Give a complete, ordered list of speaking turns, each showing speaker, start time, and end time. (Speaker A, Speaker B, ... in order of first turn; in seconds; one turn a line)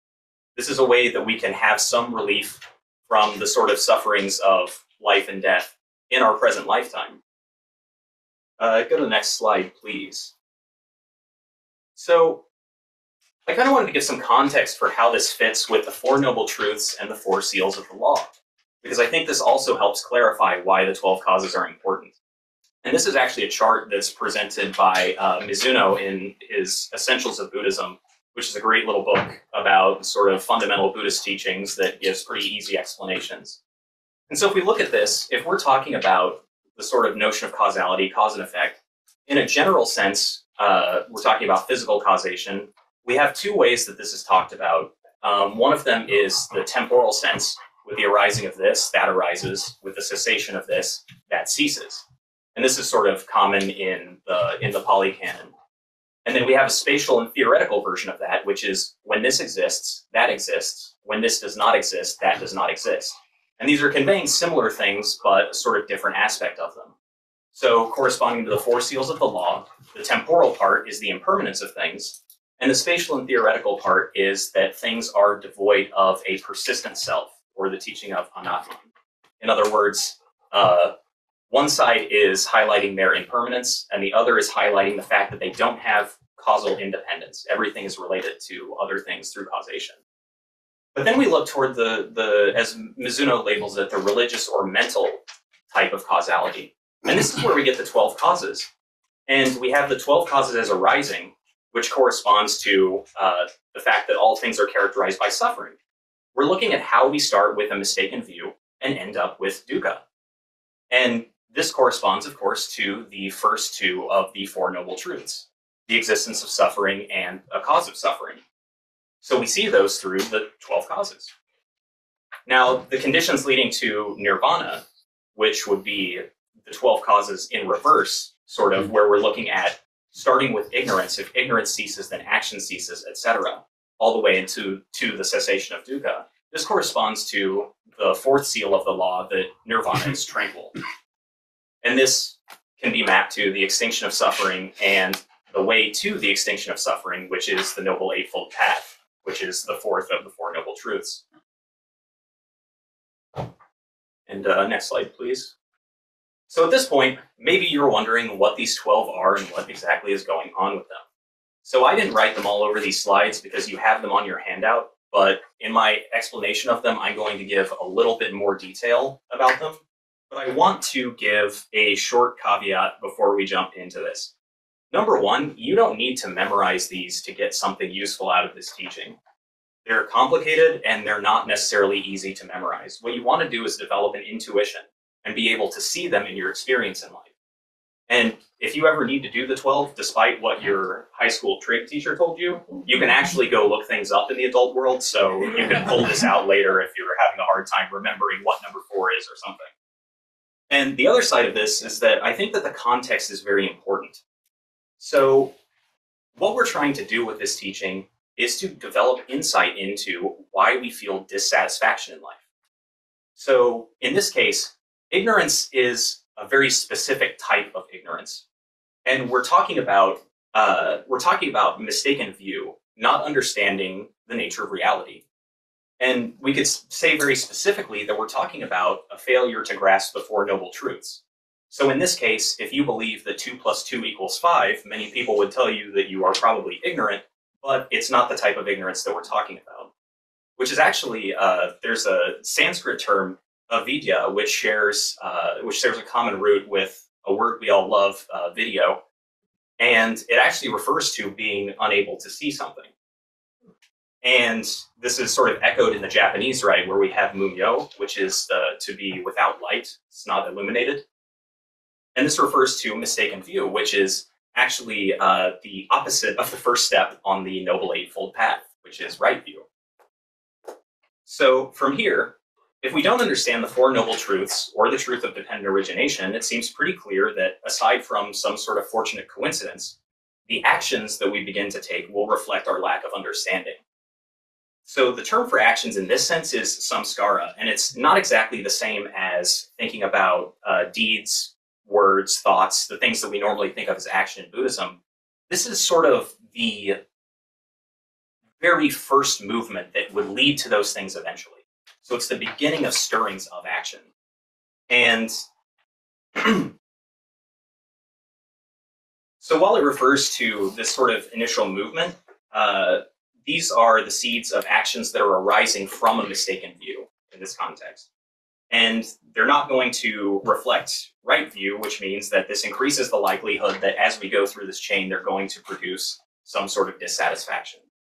Speaker A: 0.6-7.2
Speaker A: 8.6-10.3
Speaker A: 11.9-12.4
Speaker A: 13.4-18.3
Speaker A: 18.8-22.1
Speaker A: 22.8-33.6
Speaker A: 34.3-52.0
Speaker A: 52.5-55.5
Speaker A: 56.2-66.9
Speaker A: 67.5-78.8
Speaker A: 79.4-80.9
Speaker A: 81.5-90.0
Speaker A: 90.9-98.7
Speaker A: 99.3-105.8
Speaker A: 106.3-110.0
Speaker A: 110.9-118.4
Speaker A: 119.2-121.3
Speaker A: 122.5-124.8
Speaker A: 125.3-140.7
Speaker A: 141.8-151.2
Speaker A: 154.3-155.5
Speaker A: 156.5-161.0
Speaker A: 161.6-174.3
Speaker A: 174.9-179.2
Speaker A: 179.8-187.3
Speaker A: 188.1-199.7
Speaker A: 200.7-204.2
Speaker A: 205.0-205.5
Speaker A: 206.3-212.4
Speaker A: 213.3-218.4
Speaker A: 219.1-225.2
Speaker A: 226.0-239.9
Speaker A: 240.6-249.0
Speaker A: 249.8-252.9
Speaker A: 254.2-261.0
Speaker A: 262.1-269.6
Speaker A: 271.2-279.9
Speaker A: 280.5-283.8
Speaker A: 284.9-295.0
Speaker A: 295.5-297.0
Speaker A: 298.6-304.1
Speaker A: 304.9-305.4
Speaker A: 306.4-306.7
Speaker A: 309.4-318.1
Speaker A: 318.7-327.8